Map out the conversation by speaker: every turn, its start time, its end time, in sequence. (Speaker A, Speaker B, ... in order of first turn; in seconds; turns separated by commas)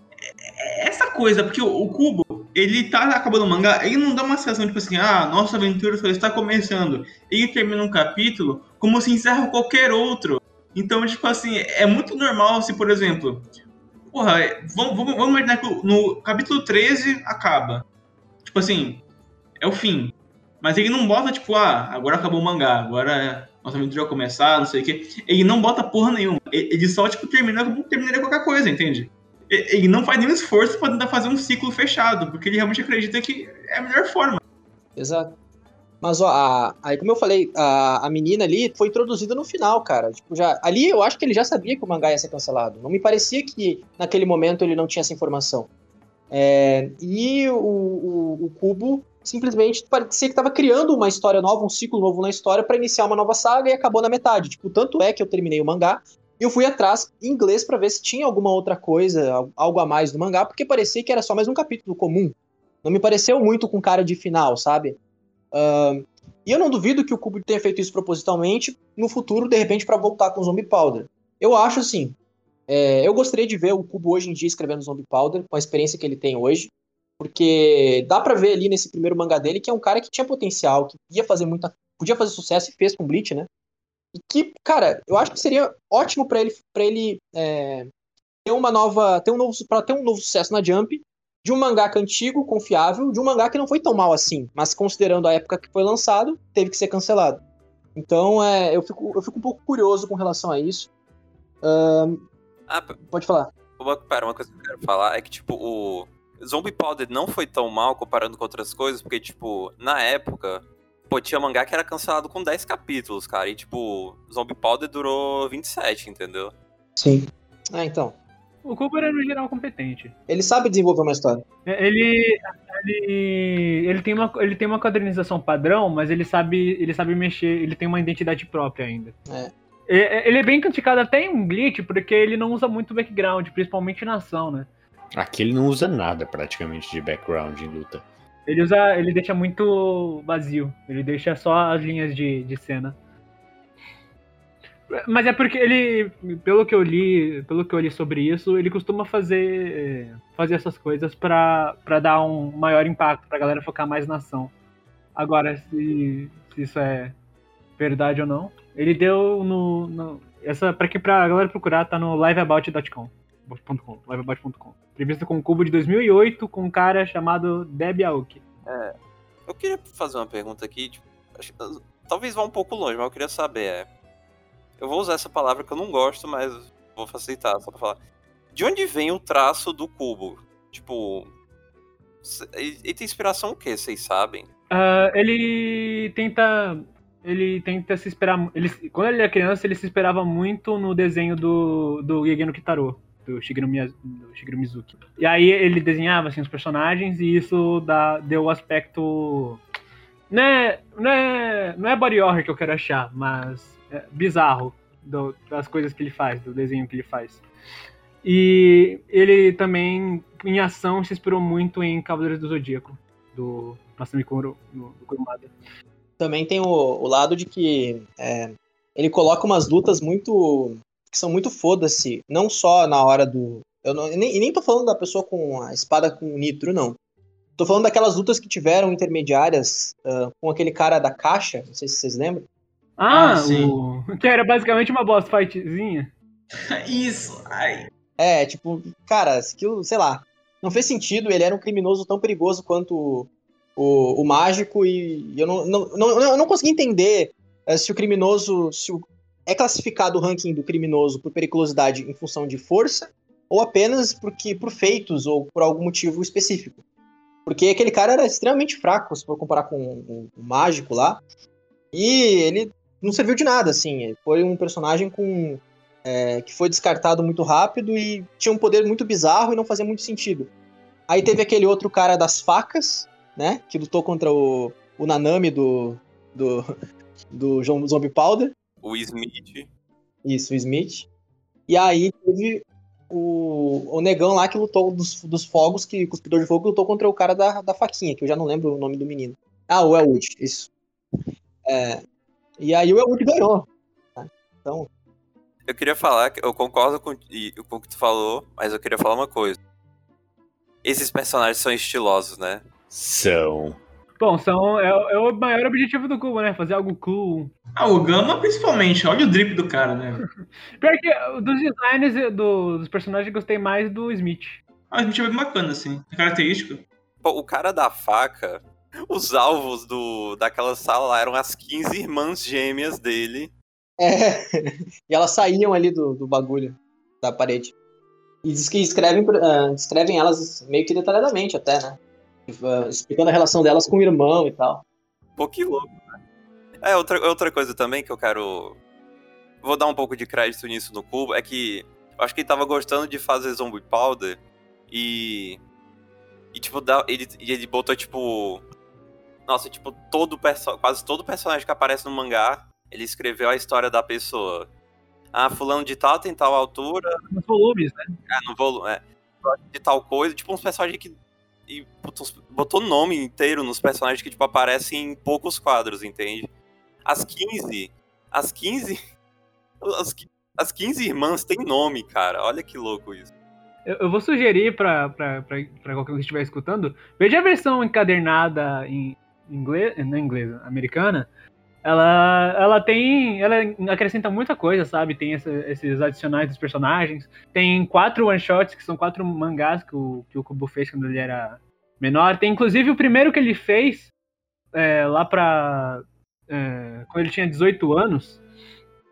Speaker A: 0.4-13.5, Speaker A: 14.1-17.9, Speaker A: 18.4-19.0, Speaker A: 19.6-34.4, Speaker B: 35.0-35.4, Speaker B: 36.0-45.7, Speaker B: 46.3-65.0, Speaker B: 65.5-72.2, Speaker B: 72.7-83.5, Speaker B: 84.2-87.9, Speaker B: 88.5-97.4, Speaker B: 98.0-100.9, Speaker B: 101.6-102.2, Speaker C: 102.7-103.0, Speaker B: 103.1-103.5, Speaker C: 103.8-116.5, Speaker B: 117.0-118.2, Speaker D: 118.6-120.1, Speaker B: 120.3-121.4, Speaker D: 121.7-129.2, Speaker D: 129.9-134.7, Speaker E: 135.2-138.0, Speaker D: 138.5-143.0, Speaker D: 144.9-154.5, Speaker D: 155.2-157.2, Speaker D: 157.8-168.4, Speaker C: 168.7-168.9, Speaker C: 169.5-173.9, Speaker C: 174.8-178.0, Speaker C: 178.5-181.3, Speaker C: 182.2-184.5, Speaker D: 184.7-199.6, Speaker D: 200.3-207.4, Speaker D: 208.2-215.5, Speaker B: 216.2-227.0, Speaker B: 227.6-232.5, Speaker D: 233.0-236.1, Speaker A: 233.1-233.8, Speaker A: 236.7-237.9, Speaker B: 238.2-256.8, Speaker B: 257.5-261.2, Speaker B: 261.9-270.5, Speaker B: 271.1-276.7, Speaker B: 277.3-278.5, Speaker C: 278.8-279.7, Speaker B: 280.2-281.1, Speaker B: 281.7-290.7, Speaker B: 291.7-292.0, Speaker B: 292.6-294.9, Speaker C: 295.7-299.6, Speaker C: 300.8-302.6, Speaker E: 302.9-303.8, Speaker D: 304.2-307.5, Speaker A: 307.8-310.2, Speaker D: 310.8-314.6, Speaker A: 314.9-316.8, Speaker C: 317.2-323.5, Speaker B: 324.0-327.7, Speaker B: 328.4-332.0, Speaker B: 332.5-334.8, Speaker C: 335.4-336.2, Speaker C: 336.8-338.8, Speaker C: 339.6-345.6, Speaker C: 346.5-348.6, Speaker C: 349.5-354.7, Speaker C: 355.3-357.2, Speaker D: 357.3-358.2, Speaker C: 358.3-361.2, Speaker C: 361.7-366.5, Speaker C: 367.1-369.0, Speaker C: 369.8-373.3, Speaker D: 373.9-381.3, Speaker D: 381.8-394.1, Speaker D: 394.7-398.4